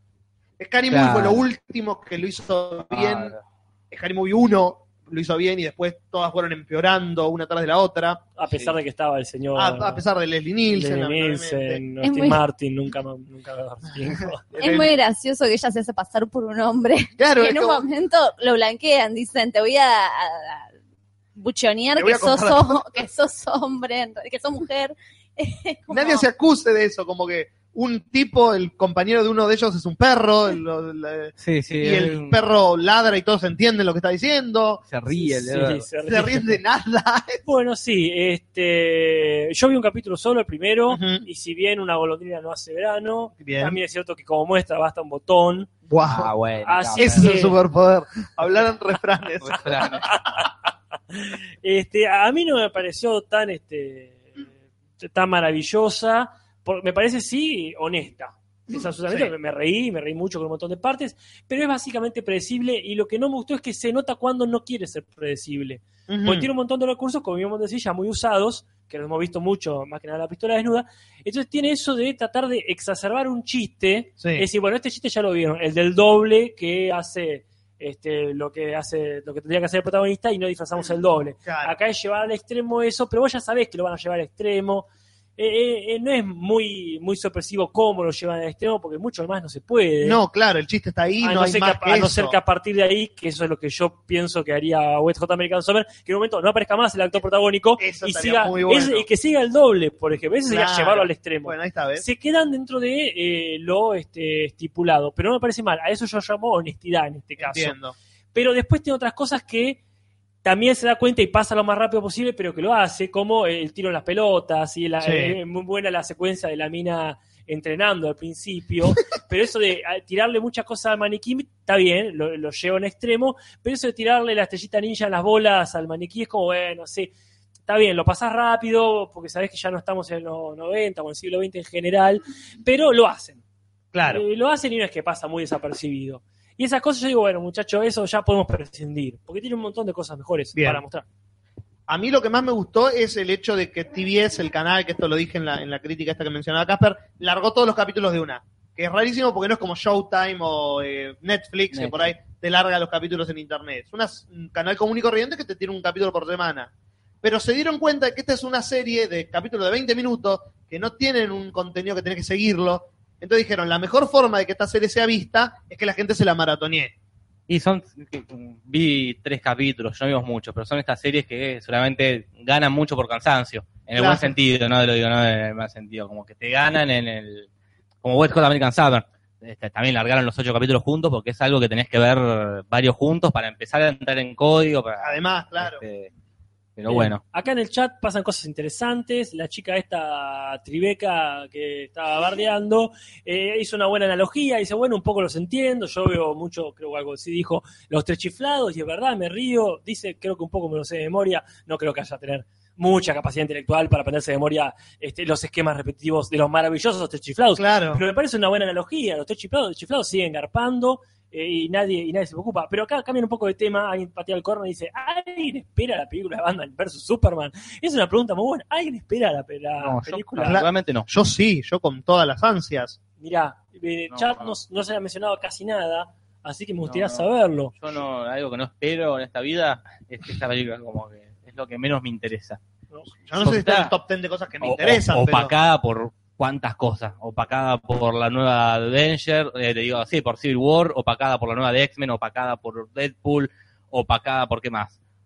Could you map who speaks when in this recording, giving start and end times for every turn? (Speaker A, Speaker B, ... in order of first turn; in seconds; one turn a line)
Speaker A: 0.6-3.4
Speaker B: 0.9-1.4
Speaker B: 2.9-3.4
Speaker A: 3.9-8.2
Speaker C: 8.4-10.0
Speaker B: 8.5-8.7
Speaker A: 9.6-11.8
Speaker C: 10.7-14.4
Speaker D: 12.0-12.4
Speaker A: 14.5-14.9
Speaker D: 14.6-20.7
Speaker A: 17.2-17.8
Speaker D: 21.4-26.3
Speaker A: 22.0-22.9
Speaker A: 25.9-34.9
Speaker B: 31.4-32.4
Speaker B: 34.9-35.9
Speaker C: 35.2-36.6
Speaker A: 36.1-37.4
Speaker C: 37.5-45.7
Speaker A: 40.9-41.3
Speaker A: 43.4-43.8
Speaker A: 45.9-46.3
Speaker B: 46.0-47.3
Speaker C: 46.6-47.6
Speaker A: 47.0-50.0
Speaker B: 49.5-50.1
Speaker C: 50.1-50.5
Speaker C: 51.1-54.4
Speaker C: 55.0-90.2
Speaker A: 66.1-66.5
Speaker A: 74.2-74.5
Speaker A: 81.5-81.8
Speaker A: 90.0-92.4
Speaker C: 91.2-107.8
Speaker A: 97.8-99.1
Speaker A: 100.5-102.1
Speaker A: 107.4-108.0
Speaker C: 108.3-109.8
Speaker C: 110.4-127.1
Speaker A: 115.0-115.4
Speaker C: 127.7-133.4
Speaker A: 133.9-134.2
Speaker C: 134.1-141.1
Speaker A: 140.6-140.8
Speaker A: 141.9-156.7
Speaker B: 151.7-152.1
Speaker A: 157.2-166.9
Speaker B: 167.5-177.5
Speaker A: 174.0-174.3
Speaker B: 178.0-186.1
Speaker A: 185.0-185.8
Speaker B: 186.8-187.2
Speaker C: 186.9-220.6
Speaker A: 207.6-208.0
Speaker B: 219.8-221.1
Speaker A: 220.4-223.0
Speaker C: 223.2-227.7
Speaker B: 224.1-224.5
Speaker B: 226.9-232.6
Speaker A: 233.2-235.5
Speaker B: 233.4-233.9
Speaker B: 234.6-244.9